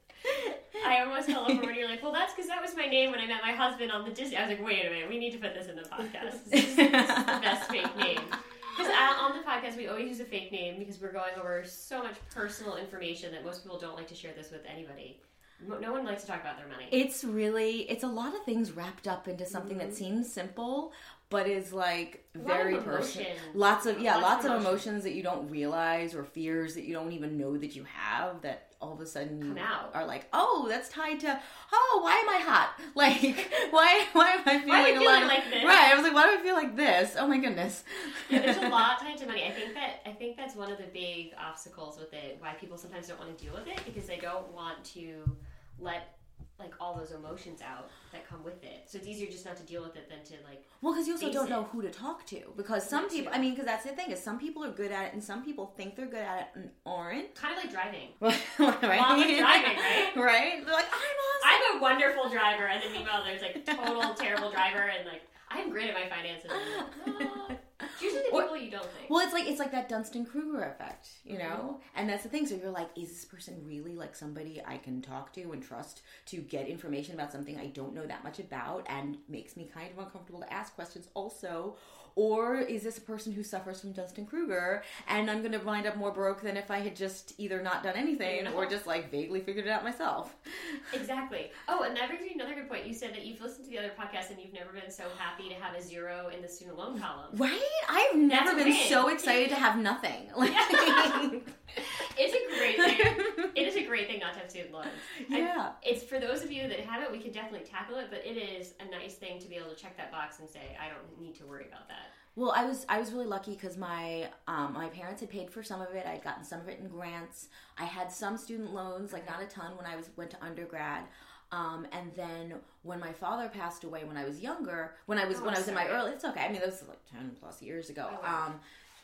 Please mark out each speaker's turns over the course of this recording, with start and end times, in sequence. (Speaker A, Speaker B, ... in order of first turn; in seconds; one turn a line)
Speaker A: 0.3-0.5
Speaker B: 0.8-17.0
Speaker A: 6.5-8.2
Speaker A: 16.9-38.8
Speaker B: 19.5-20.0
Speaker B: 22.4-24.9
Speaker B: 29.4-29.9
Speaker B: 34.7-35.8
Speaker B: 38.3-51.6
Speaker A: 50.8-57.4
Speaker B: 52.9-53.4
Speaker B: 57.4-58.2
Speaker A: 58.2-61.8
Speaker B: 58.9-60.2
Speaker B: 61.4-69.1
Speaker A: 63.6-64.2
Speaker A: 66.5-68.5
Speaker A: 69.1-90.9
Speaker B: 71.3-71.7
Speaker B: 88.2-88.7
Speaker B: 90.9-97.4
Speaker A: 97.3-101.8
Speaker B: 98.3-99.5
Speaker B: 100.5-112.1
Speaker A: 102.8-103.5
Speaker A: 105.1-105.7
Speaker A: 112.3-128.6
Speaker B: 125.3-126.0
Speaker B: 128.1-128.5